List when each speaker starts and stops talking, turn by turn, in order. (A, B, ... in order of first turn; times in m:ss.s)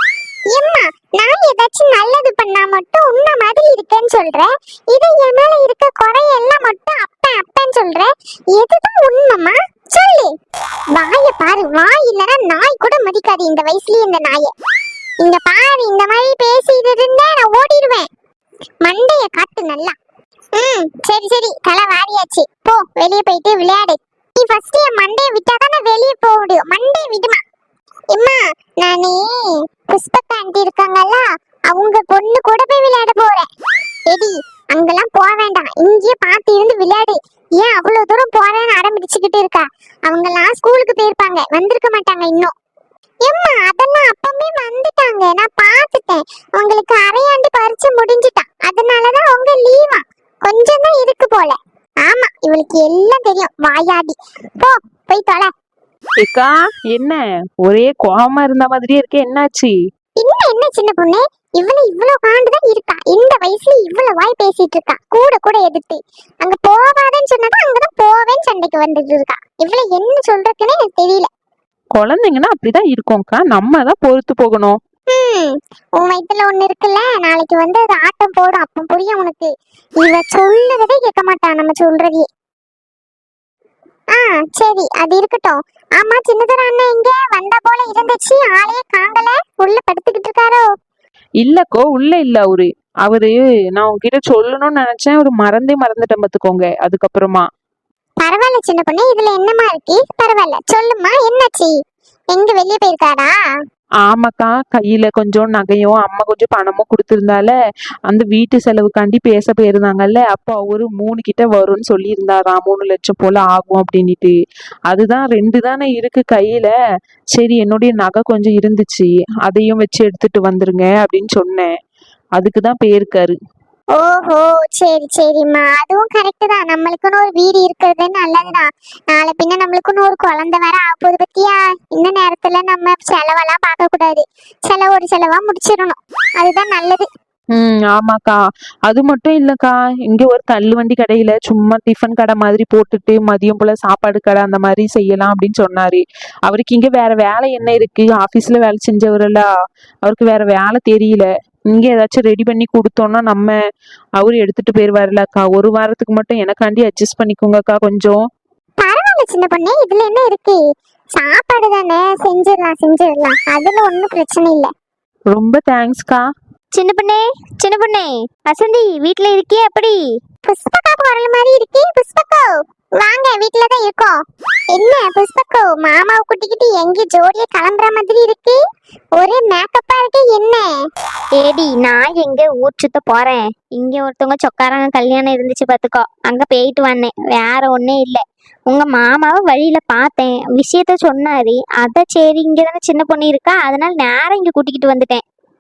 0:00.5-0:10.3 A
0:11.0-0:14.5 A
0:15.2-0:18.1 A
0:18.8-0:19.9 A
0:20.6-0:27.4 A
0:28.1-0:29.3 A
0:29.9-0:33.5 A
0:34.1-0:42.5 A
0:43.2-0:55.5 A
0:56.2-0:59.8 B
1:00.2-1:11.3 A
1:12.0-1:14.8 B
1:15.1-1:19.5 A
1:20.0-1:22.3 A
1:24.1-1:30.6 A
1:31.4-1:37.5 B
1:38.2-1:41.7 A
1:42.3-1:43.3 A
1:44.1-1:47.5 B
1:48.1-1:54.4 B
1:54.9-1:56.7 B
1:57.3-2:01.7 B
2:02.4-2:03.4 B
2:04.0-2:17.1 A
2:17.5-2:29.5 B
2:30.0-2:33.6 B
2:34.2-2:38.2 B
2:38.8-2:40.6 A
2:41.2-2:44.7 A
2:45.3-2:46.2 B
2:46.7-2:50.0 C
2:50.5-2:54.2 A
2:54.7-2:58.6 A
2:59.2-3:00.7 A
3:01.4-3:15.2 C